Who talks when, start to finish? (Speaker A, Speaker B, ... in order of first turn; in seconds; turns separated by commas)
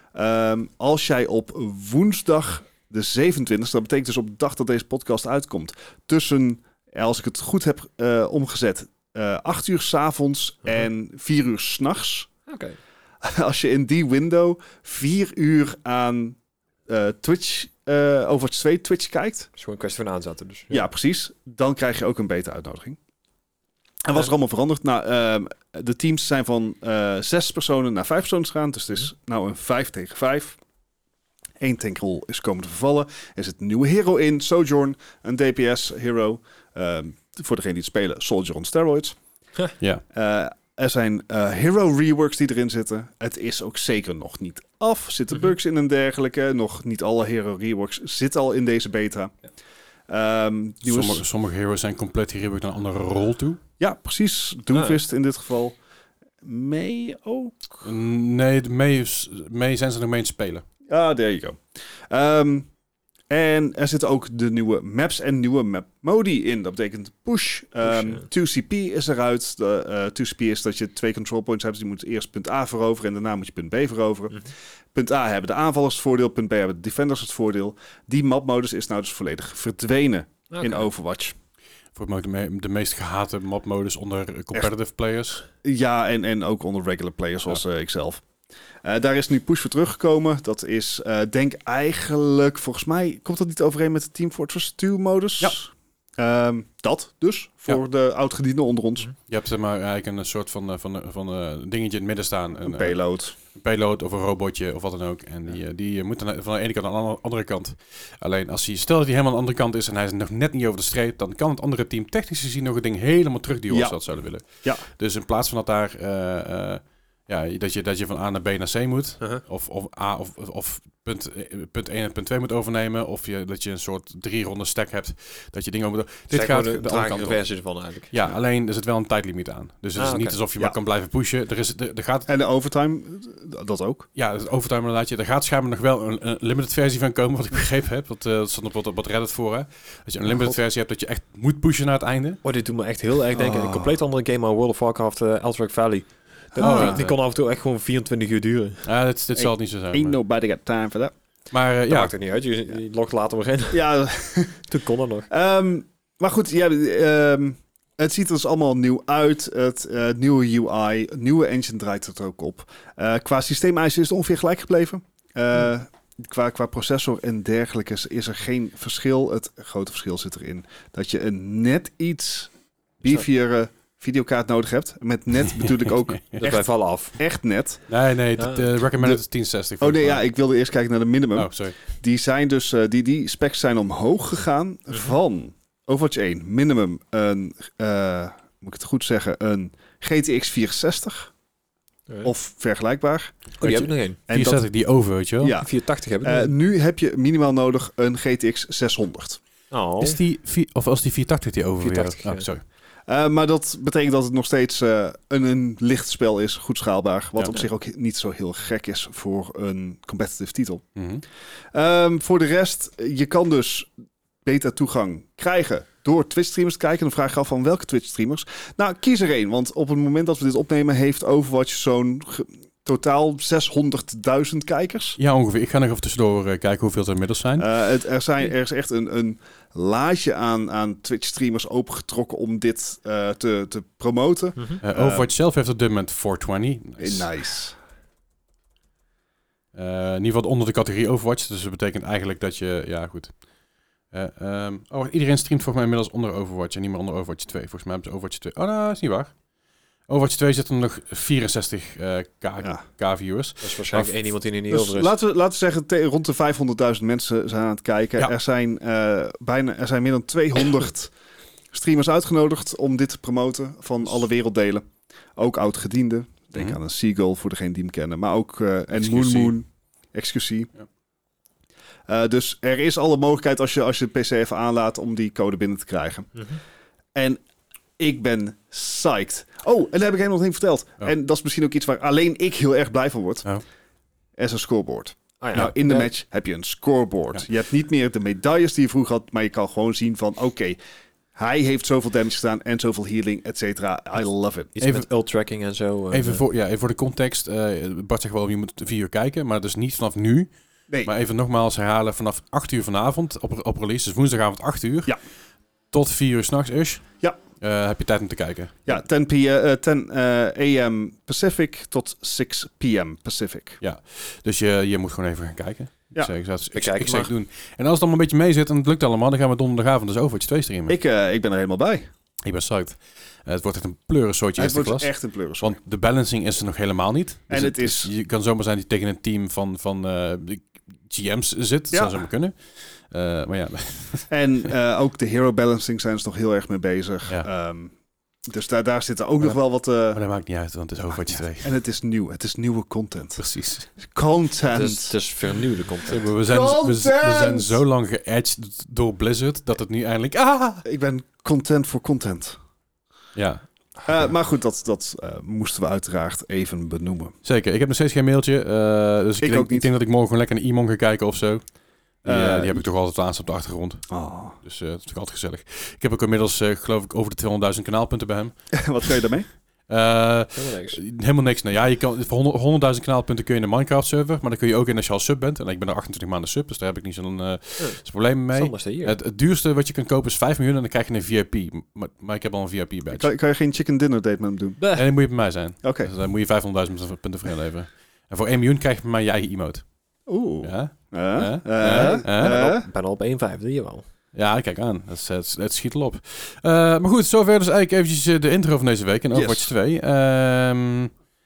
Speaker A: 0.1-12.3, Speaker B: 12.5-12.8, Speaker A: 13.2-19.5, Speaker B: 19.6-20.8, Speaker A: 20.7-23.0, Speaker A: 24.0-30.6, Speaker A: 31.6-39.2, Speaker A: 40.1-49.3, Speaker A: 50.1-51.2, Speaker C: 50.8-53.6, Speaker A: 53.8-55.8, Speaker A: 56.4-57.7, Speaker C: 57.8-60.6, Speaker A: 60.9-62.7, Speaker A: 63.3-81.3, Speaker B: 67.9-68.2, Speaker B: 80.5-80.9, Speaker C: 81.9-85.4, Speaker A: 85.6-88.2, Speaker A: 88.8-99.1, Speaker C: 99.3-127.4, Speaker A: 102.6-103.3, Speaker A: 113.7-114.8, Speaker B: 126.3-128.2, Speaker C: 128.1-132.3, Speaker B: 129.9-130.4, Speaker A: 132.3-134.1, Speaker C: 134.1-142.4, Speaker B: 140.3-140.5, Speaker B: 142.4-148.8, Speaker A: 143.3-143.9, Speaker A: 146.5-147.1, Speaker C: 146.6-147.1, Speaker C: 148.8-150.2, Speaker A: 149.3-151.1, Speaker C: 151.5-152.1, Speaker B: 151.9-153.8, Speaker A: 153.7-154.7, Speaker B: 154.7-155.3, Speaker A: 155.3-176.6, Speaker C: 176.1-176.4, Speaker B: 176.4-177.2, Speaker A: 177.2-177.8, Speaker C: 177.9-180.2, Speaker B: 178.4-178.7, Speaker A: 179.8-191.3, Speaker C: 181.3-181.8, Speaker A: 192.2-193.4, Speaker C: 193.6-195.6, Speaker B: 193.6-194.2, Speaker A: 194.3-194.6, Speaker A: 195.4-199.4, Speaker B: 195.6-196.5, Speaker B: 199.7-200.2, Speaker C: 200.0-202.6, Speaker B: 201.8-202.5, Speaker A: 203.1-210.8, Speaker C: 210.9-211.2, Speaker A: 211.7-213.9, Speaker A: 214.4-225.2, Speaker C: 225.2-227.7, Speaker A: 227.6-235.3, Speaker C: 234.8-237.3, Speaker A: 237.0-237.8, Speaker C: 239.7-243.3, Speaker C: 244.1-249.3, Speaker C: 250.1-254.1, Speaker B: 253.6-255.1, Speaker A: 254.7-261.1, Speaker A: 261.7-270.7, Speaker C: 268.9-269.5, Speaker A: 272.1-276.4, Speaker A: 277.1-277.4, Speaker A: 278.0-283.5, Speaker A: 284.4-290.8, Speaker B: 285.4-286.1, Speaker A: 291.4-294.7, Speaker B: 294.8-296.4, Speaker C: 296.1-300.5, Speaker C: 301.0-305.2, Speaker C: 305.9-307.1, Speaker C: 307.6-308.9, Speaker A: 308.9-313.8, Speaker C: 313.8-320.9, Speaker B: 316.7-317.3, Speaker A: 320.9-322.1, Speaker C: 322.4-334.3, Speaker A: 324.6-325.8, Speaker A: 327.5-328.1, Speaker A: 331.9-332.2, Speaker A: 334.3-337.9, Speaker A: 338.4-340.2, Speaker C: 340.1-341.7, Speaker A: 341.6-343.4, Speaker C: 343.4-343.9, Speaker A: 343.9-345.1, Speaker B: 344.7-346.2, Speaker C: 346.0-350.8, Speaker A: 346.4-347.8, Speaker A: 350.8-352.6, Speaker C: 353.3-353.6, Speaker A: 354.0-357.3, Speaker C: 357.4-361.7, Speaker A: 359.4-359.9, Speaker C: 362.2-368.6, Speaker A: 362.2-362.8, Speaker A: 364.1-364.6, Speaker A: 368.7-369.5, Speaker C: 369.9-383.3, Speaker B: 370.5-371.0, Speaker B: 378.5-379.1, Speaker A: 383.1-384.8, Speaker B: 384.8-385.1, Speaker C: 384.9-389.9, Speaker A: 385.8-386.1, Speaker A: 390.3-392.9, Speaker C: 390.6-392.6, Speaker B: 391.9-394.0, Speaker C: 394.3-401.1, Speaker A: 399.3-399.7